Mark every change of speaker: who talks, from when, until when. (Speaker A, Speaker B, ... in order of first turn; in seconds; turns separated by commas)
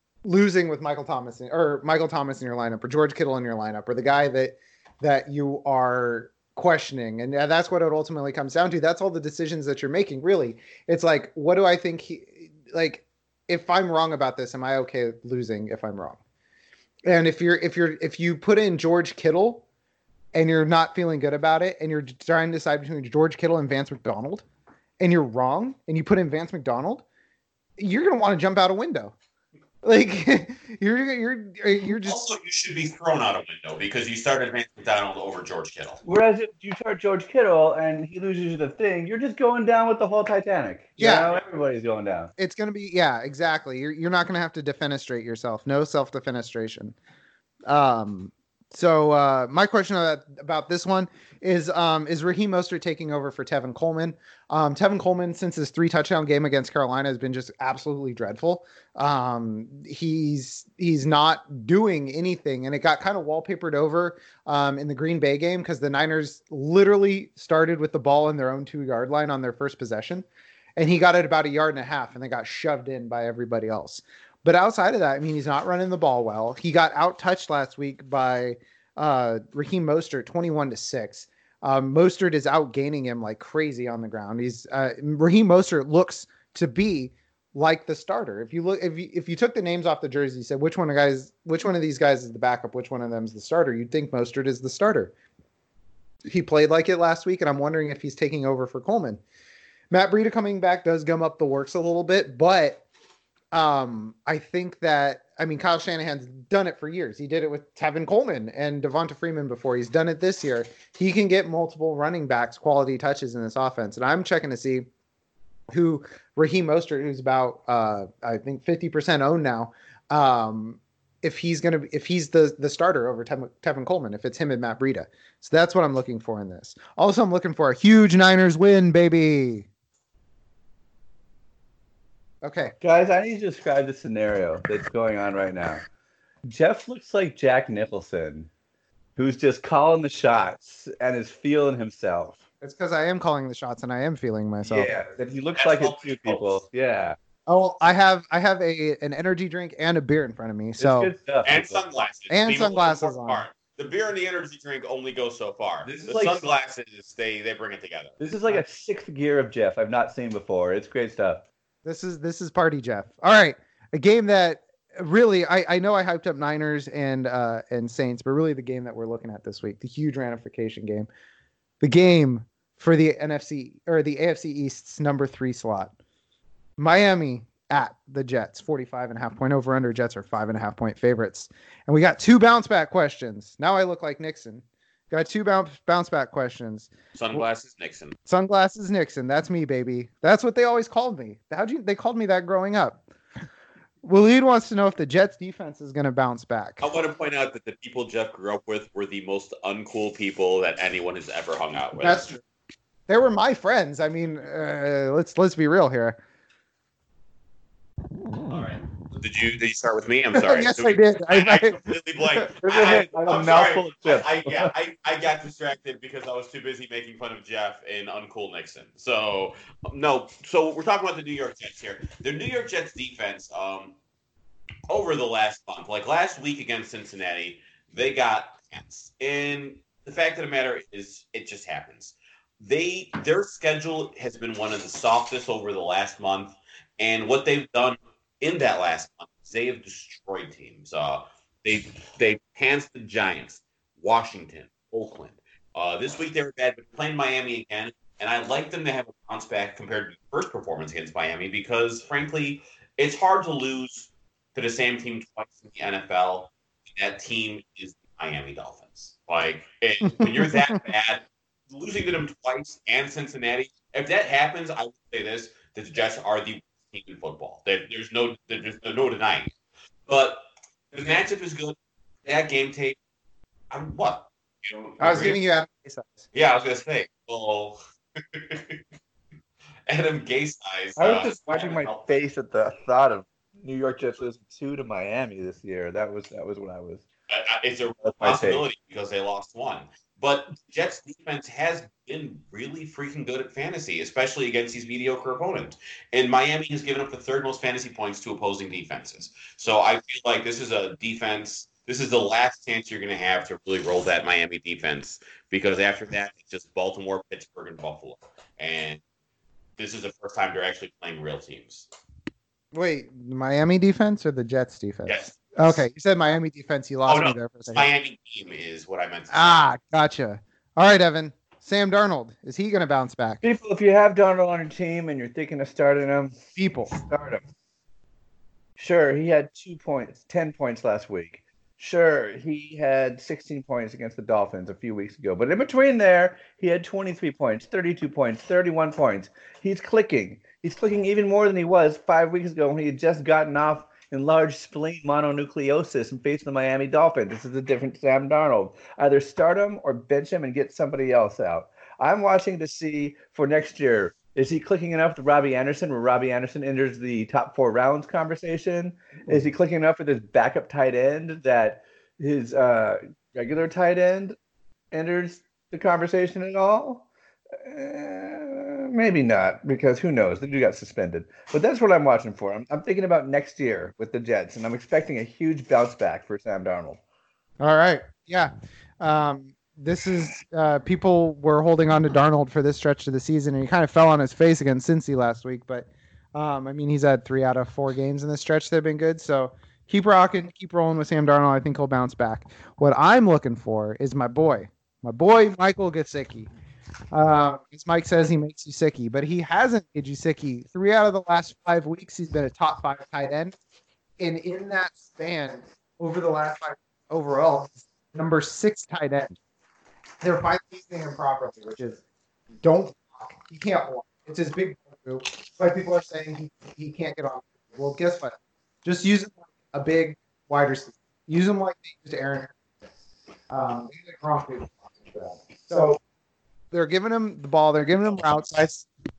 Speaker A: 0.2-16.2, Speaker A: 17.1-19.6, Speaker A: 20.3-24.4, Speaker A: 25.0-27.1, Speaker A: 27.8-29.1, Speaker A: 29.8-32.3, Speaker B: 31.9-36.0, Speaker C: 36.0-42.3, Speaker A: 41.0-41.3, Speaker A: 42.4-47.0, Speaker A: 47.7-70.2, Speaker A: 70.8-95.1, Speaker A: 96.3-99.2, Speaker A: 99.9-102.8, Speaker A: 103.5-114.9, Speaker A: 115.7-129.7, Speaker A: 132.4-132.7, Speaker C: 132.8-135.8, Speaker C: 136.5-138.5, Speaker C: 139.2-142.4, Speaker A: 142.6-144.9, Speaker C: 144.7-147.2, Speaker B: 145.6-146.6, Speaker A: 147.5-151.1, Speaker C: 150.8-151.8, Speaker B: 151.4-158.1, Speaker A: 152.3-153.4, Speaker C: 155.8-156.6, Speaker C: 158.2-161.4, Speaker A: 161.8-171.1, Speaker A: 171.8-175.9, Speaker A: 176.8-187.4, Speaker B: 187.2-188.2, Speaker A: 188.3-193.0, Speaker A: 194.0-196.8, Speaker B: 196.8-202.3, Speaker A: 202.0-202.4, Speaker A: 203.1-206.2, Speaker B: 208.5-224.0, Speaker A: 210.3-212.8, Speaker C: 212.6-214.7, Speaker B: 224.9-269.5, Speaker A: 260.2-260.8, Speaker B: 270.1-273.0, Speaker B: 273.7-275.4, Speaker A: 275.0-276.2, Speaker B: 276.3-278.8, Speaker B: 279.9-282.2, Speaker C: 281.0-287.1, Speaker B: 287.3-309.0, Speaker C: 288.2-288.7, Speaker B: 309.8-311.9, Speaker A: 312.7-317.9, Speaker B: 315.1-315.8, Speaker B: 317.1-319.7, Speaker A: 319.3-323.4, Speaker C: 323.4-327.4, Speaker A: 326.6-326.9, Speaker C: 328.8-364.4, Speaker C: 364.9-367.1, Speaker C: 367.6-377.0, Speaker A: 377.6-396.5, Speaker A: 397.1-403.6, Speaker A: 404.2-409.4, Speaker A: 410.2-412.0, Speaker A: 412.6-422.6, Speaker A: 423.5-425.9, Speaker C: 425.7-426.0, Speaker A: 426.7-428.9